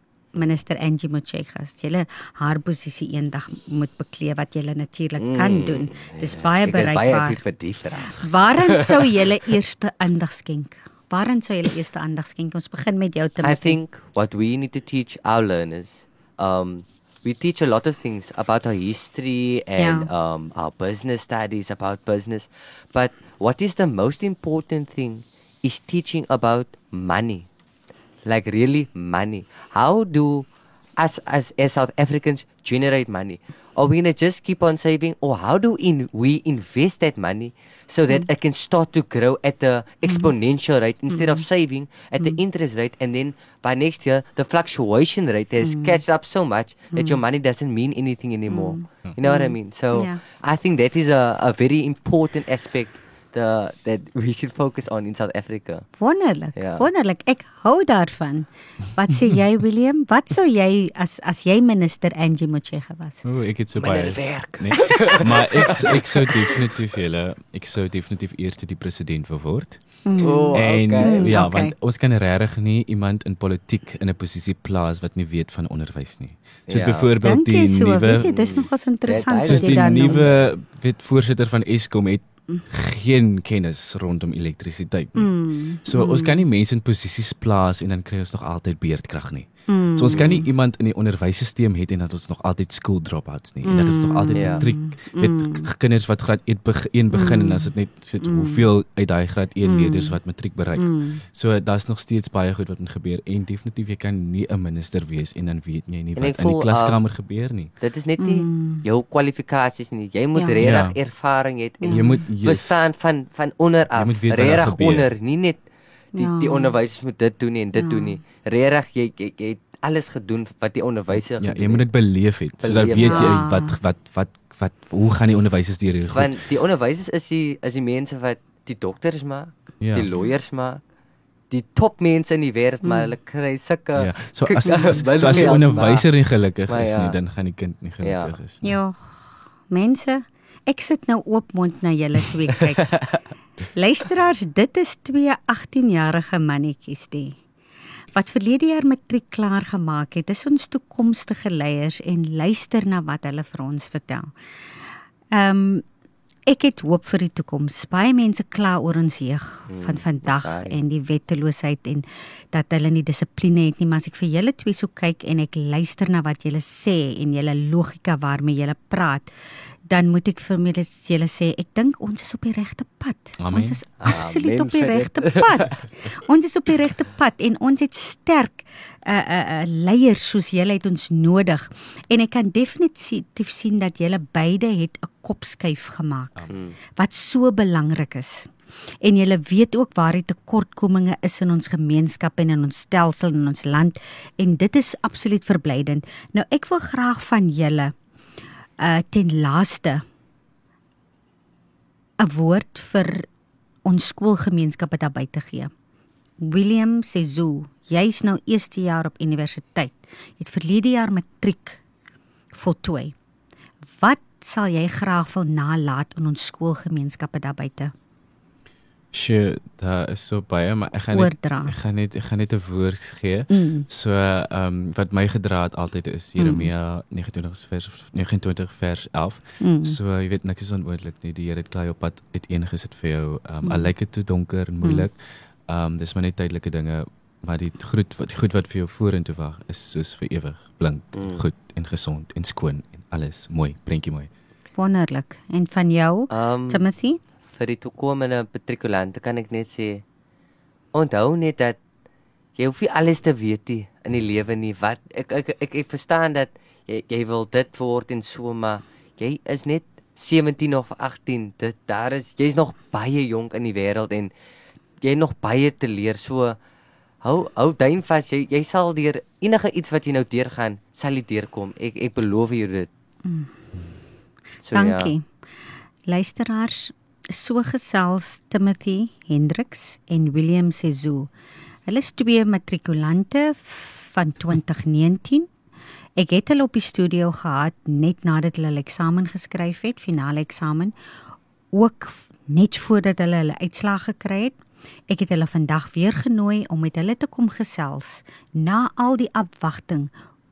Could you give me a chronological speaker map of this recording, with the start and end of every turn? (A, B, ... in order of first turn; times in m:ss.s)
0:00.3-0:07.4 A
0:05.2-0:09.1 B
0:08.0-0:13.8 A
0:13.4-0:27.5 B
0:19.8-0:20.1 A
0:28.2-0:55.9 B
0:40.0-0:40.3 A
0:41.1-0:41.4 A
0:45.6-0:46.0 A
0:46.9-0:47.2 A
0:48.5-0:50.2 A
0:56.0-1:03.2 A
0:56.5-0:56.8 B
1:03.2-1:09.8 C
1:03.8-1:06.6 B
1:10.0-1:11.7 A
1:10.2-1:11.4 B
1:10.5-1:18.6 C
1:16.7-1:17.1 B
1:17.2-1:20.2 A
1:18.1-1:20.3 B
1:19.4-1:47.7 C
1:25.2-1:26.4 A
1:29.7-1:30.5 A
1:30.1-1:30.4 B
1:33.6-1:35.7 A
1:34.3-1:34.7 B
1:37.1-1:38.6 A
1:39.6-1:40.2 A
1:40.8-1:41.2 A
1:46.2-1:47.0 B
1:47.8-1:55.6 B
1:48.2-1:48.8 A
1:50.3-1:50.6 A
1:50.6-1:51.0 C
1:51.8-1:52.2 A
1:51.9-1:52.8 C
1:53.9-1:55.1 C
1:56.1-1:56.7 A
1:56.1-2:01.9 B
1:57.8-1:58.2 A
2:01.3-2:06.4 C
2:02.6-2:03.4 B
2:02.9-2:03.8 A
2:06.1-2:10.8 B
2:09.8-2:10.1 C
2:11.5-2:16.1 B
2:12.8-2:13.1 A
2:14.0-2:18.8 C
2:14.6-2:15.7 A
2:16.7-2:17.2 B
2:18.0-2:18.3 B
2:18.6-2:19.2 A
2:19.7-2:22.9 A
2:23.7-2:27.4 A
2:28.1-2:34.3 A
2:35.3-2:35.8 A
2:36.5-2:49.3 A
2:39.7-2:40.8 B
2:49.9-3:17.9 A
2:53.4-2:53.8 C
2:54.0-2:55.7 B
3:06.4-3:06.6 C
3:18.8-3:20.0 A
3:22.2-3:23.3 A
3:23.8-3:25.7 A
3:26.4-3:31.8 A
3:32.5-3:33.1 A
3:33.9-3:37.9 A
3:39.1-3:55.2 C
3:41.1-3:41.7 A
3:43.5-3:43.9 A
3:46.4-3:46.7 A
3:49.6-3:50.0 A
3:53.6-3:53.9 A
3:54.8-3:55.1 A
3:55.7-4:04.3 C
4:01.1-4:01.4 B
4:04.8-4:07.2 A
4:06.3-4:06.8 B
4:07.5-4:10.0 B
4:10.9-4:11.8 B
4:12.6-4:24.3 B
4:25.0-4:26.6 B
4:27.2-4:32.9 B
4:33.2-4:33.5 A
4:34.6-4:35.1 B
4:34.7-4:35.2 A
4:36.1-4:41.3 A
4:41.9-4:45.5 A
4:46.2-4:50.9 A
4:51.7-4:54.6 A
4:55.1-5:00.1 A